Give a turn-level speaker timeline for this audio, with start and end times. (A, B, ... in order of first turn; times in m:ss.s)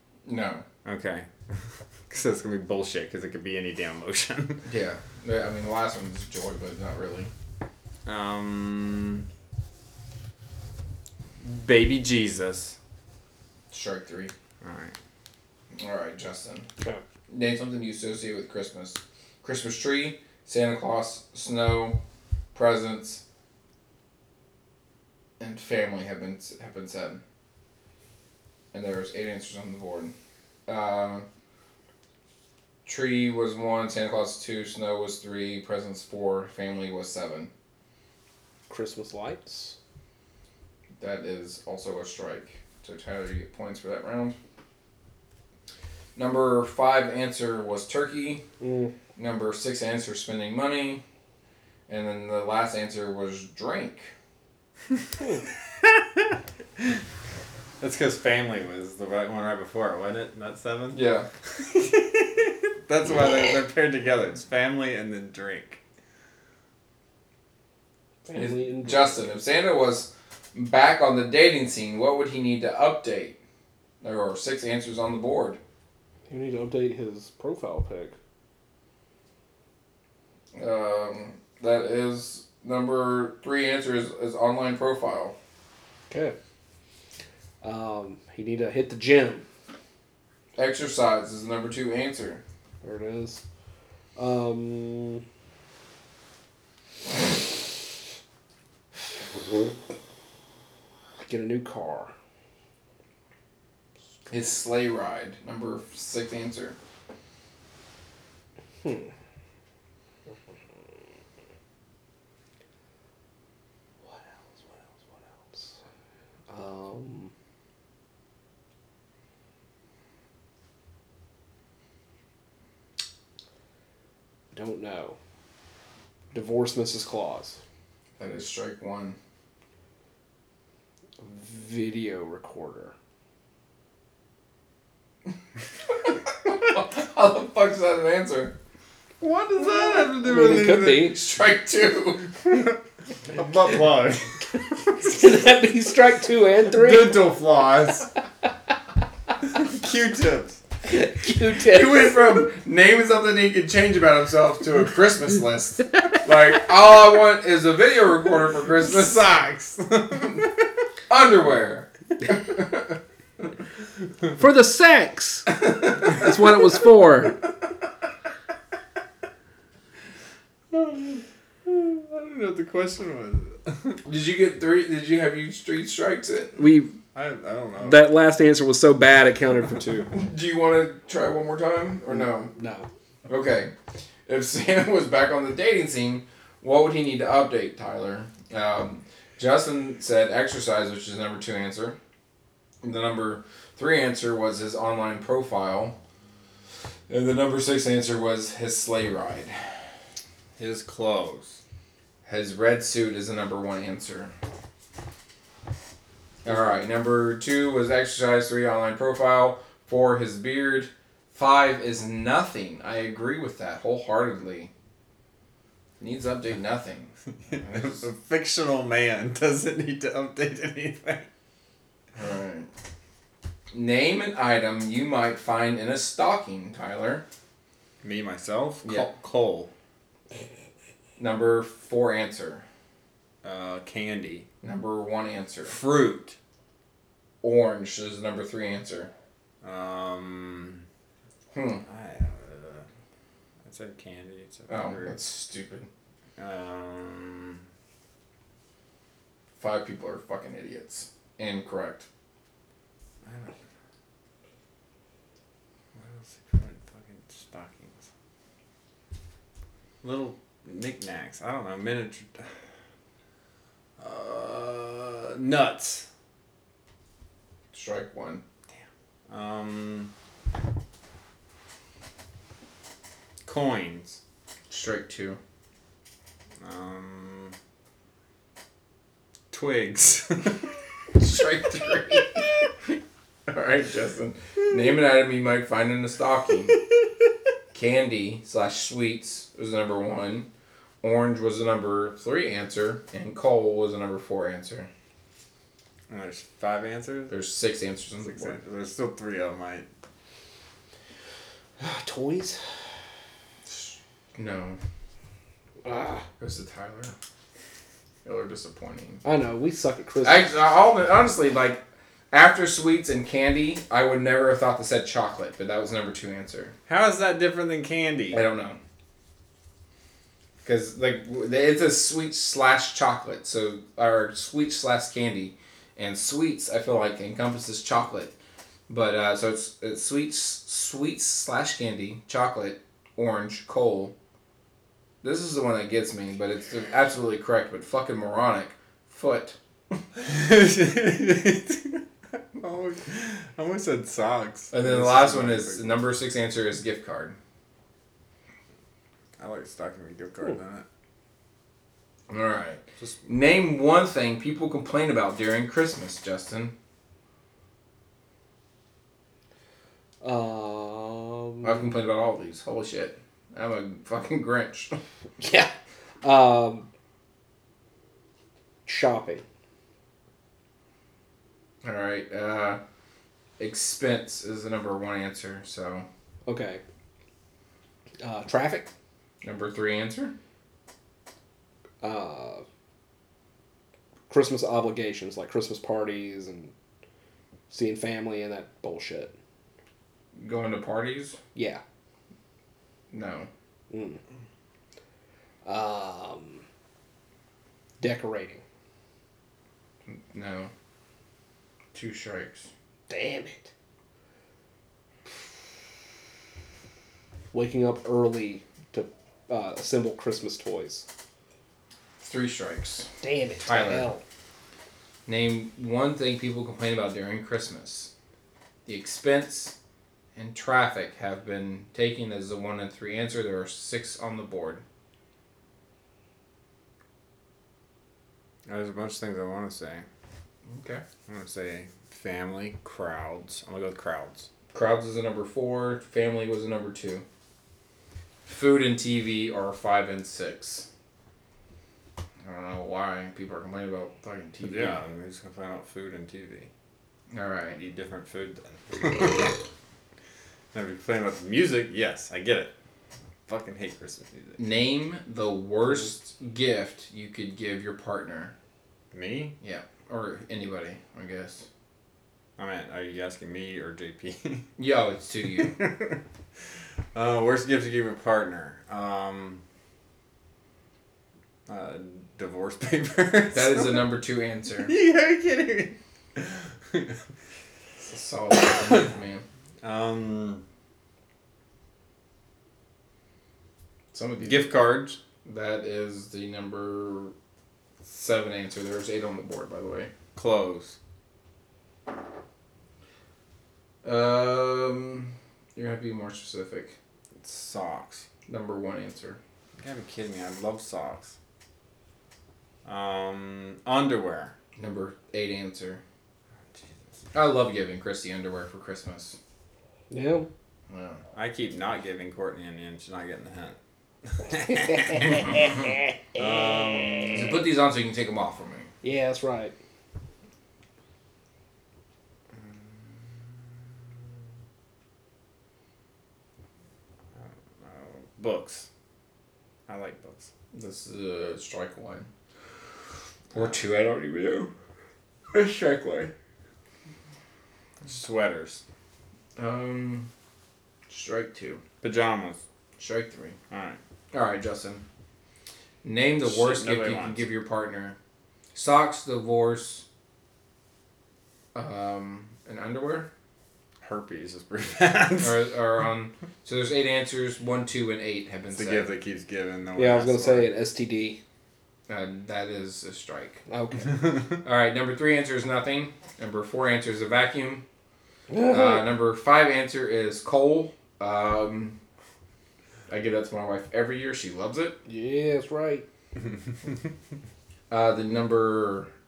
0:00.2-0:00.6 A
0:00.8-0:04.6 B
0:04.6-0:07.3 A
0:08.0-0:09.2 B
0:11.4-0:12.8 B
0:13.7-0:14.3 A
0:14.6-0:14.9 B
0:15.8-0:16.7 A
0:17.3-0:22.0 A
0:22.5-0:23.2 A
0:25.4-0:27.2 A
0:28.7-0:30.1 A
0:30.7-0:31.3 A
0:32.8-0:37.5 A
0:38.7-0:39.8 C
0:41.0-0:44.4 A
0:46.1-0:48.4 A
0:48.6-0:48.9 C
0:49.2-0:51.0 A
0:51.9-0:54.1 A
0:55.7-0:57.0 B
0:57.8-1:01.0 B
1:00.9-1:01.3 A
1:01.5-1:05.8 B
1:08.2-1:09.2 C
1:08.3-1:13.4 A
1:14.0-1:15.6 A
1:16.3-1:18.1 C
1:20.5-1:25.4 A
1:26.1-1:26.4 C
1:27.6-1:29.4 C
1:30.6-1:32.4 A
1:32.8-1:33.4 C
1:34.2-1:35.2 C
1:41.2-1:42.1 C
1:44.3-1:46.8 A
1:48.8-1:49.1 C
1:54.0-1:55.7 C
1:56.5-1:57.3 C
2:04.5-2:05.2 C
2:06.3-2:07.6 C
2:08.2-2:09.2 A
2:11.2-2:12.9 C
2:16.0-2:18.5 A
2:19.2-2:21.1 B
2:20.2-2:21.2 C
2:21.0-2:22.3 A
2:22.4-2:25.0 B
2:25.0-2:27.2 C
2:26.6-2:28.1 B
2:29.5-2:30.6 B
2:30.9-2:32.4 C
2:31.6-2:39.2 A
2:38.8-2:40.4 B
2:41.1-2:43.0 A
2:44.4-2:47.4 C
2:45.6-2:46.2 A
2:50.7-2:54.0 B
2:54.0-2:56.6 A
2:56.6-2:56.9 C
2:57.1-2:58.1 B
2:57.8-3:00.1 C
3:00.1-3:02.5 A
3:02.6-3:02.8 C
3:03.3-3:03.7 A
3:04.3-3:12.0 A
3:12.8-3:16.0 A
3:17.1-3:19.6 A
3:20.6-3:21.6 B
3:22.2-3:24.3 A
3:26.4-3:34.7 A
3:36.0-3:38.0 A
3:37.5-3:41.3 B
3:42.1-3:42.7 A
3:43.7-3:47.2 A
3:48.0-3:49.7 B
3:51.2-3:52.6 A
3:53.4-3:54.5 B
3:54.6-3:55.8 A
3:55.6-3:56.4 B
3:57.4-3:59.1 A
3:59.6-4:00.8 B
4:01.5-4:01.8 A
4:01.8-4:02.9 B
4:03.6-4:05.2 B
4:04.7-4:05.9 A
4:06.4-4:07.6 B
4:09.6-4:12.1 A
4:13.2-4:13.6 B
4:15.9-4:18.1 B
4:20.0-4:22.6 B
4:24.0-4:26.1 B
4:27.7-4:28.4 A
4:28.7-4:30.1 B
4:33.4-4:34.2 B
4:34.7-4:35.4 A
4:36.6-4:37.6 B
4:39.5-4:40.7 B
4:41.2-4:42.7 A
4:43.5-4:46.8 A
4:47.7-4:50.5 A
4:51.0-4:54.9 A
4:56.1-4:57.3 B
4:57.3-4:58.6 A
4:58.2-4:59.9 B
5:01.8-5:02.6 C
5:03.7-5:04.8 A
5:05.8-5:06.2 C
5:06.4-5:07.1 A
5:08.2-5:09.2 A
5:09.2-5:10.5 C
5:10.2-5:16.7 A
5:16.9-5:18.4 B
5:18.3-5:18.8 A
5:20.6-5:28.3 A
5:28.9-5:34.1 A
5:35.2-5:39.6 A
5:40.2-5:46.0 B
5:44.7-5:47.4 A
5:49.4-5:50.8 B
5:52.3-5:56.7 A
6:00.2-6:01.9 C
6:01.6-6:05.0 A
6:05.4-6:05.7 C
6:06.2-6:06.9 C
6:08.8-6:09.4 C
6:11.8-6:12.8 A
6:13.6-6:16.1 A
6:16.4-6:16.8 C
6:18.2-6:18.9 C
6:19.4-6:20.3 A
6:22.0-6:22.6 C
6:24.3-6:26.7 C
6:27.7-6:29.3 C
6:30.3-6:31.4 A
6:31.5-6:31.8 C
6:33.1-6:33.5 A
6:33.9-6:34.2 C
6:35.6-6:36.6 C
6:38.0-6:38.6 C
6:40.1-6:40.7 A
6:41.9-6:42.7 A
6:43.1-6:43.7 C
6:47.5-6:51.0 C
6:52.2-6:53.1 A
6:53.2-6:54.2 C
6:53.6-6:54.1 A
6:55.3-6:58.1 A
6:58.8-6:59.7 A
7:00.4-7:04.8 A
7:08.7-7:10.0 B
7:10.6-7:11.0 A
7:11.3-7:14.5 B
7:14.7-7:17.2 A
7:18.4-7:20.9 A
7:22.4-7:25.0 A
7:24.6-7:26.7 B
7:27.3-7:27.8 A
7:27.7-7:29.6 B
7:30.7-7:32.7 B
7:33.5-7:34.6 B
7:34.6-7:38.5 A
7:39.1-7:39.5 B
7:39.6-7:41.7 A
7:42.6-7:44.7 B
7:44.8-7:45.8 A
7:45.6-7:46.2 B
7:47.1-7:49.6 B
7:51.7-7:54.1 B
7:53.5-7:54.9 A
7:54.8-7:57.2 B
7:58.0-7:59.4 A
7:59.8-8:00.6 B
8:04.1-8:04.8 A
8:04.4-8:05.2 B
8:05.4-8:07.3 A
8:08.0-8:10.1 A
8:10.3-8:11.0 B
8:14.0-8:17.0 A
8:17.4-8:18.3 B
8:18.5-8:19.4 A
8:19.8-8:21.4 B
8:22.8-8:24.6 B
8:24.8-8:26.0 A
8:26.7-8:27.1 B
8:27.3-8:29.4 A
8:30.1-8:30.5 C
8:30.9-8:31.2 A
8:31.3-8:35.6 B
8:34.7-8:37.5 C
8:36.4-8:37.6 B
8:37.3-8:38.9 A
8:39.0-8:39.7 C
8:42.6-8:42.9 B
8:47.4-8:48.9 B
8:49.9-8:50.5 B
8:50.7-8:52.3 A
8:53.5-8:54.7 A
8:58.0-8:58.8 B
8:59.6-9:00.3 A
9:01.1-9:01.8 A
9:02.0-9:02.6 B
9:03.0-9:03.6 A
9:03.7-9:04.0 B
9:04.3-9:05.0 A
9:06.0-9:08.2 A
9:06.4-9:07.4 B
9:08.7-9:10.0 A
9:11.7-9:13.3 A
9:14.0-9:15.6 B
9:15.4-9:19.1 A
9:18.7-9:20.7 B
9:19.9-9:21.4 C
9:22.1-9:23.6 A
9:23.7-9:24.3 C
9:24.6-9:27.8 A
9:28.5-9:29.1 C
9:28.7-9:32.0 A
9:33.1-9:35.0 A
9:35.0-9:36.0 C
9:37.9-9:39.1 A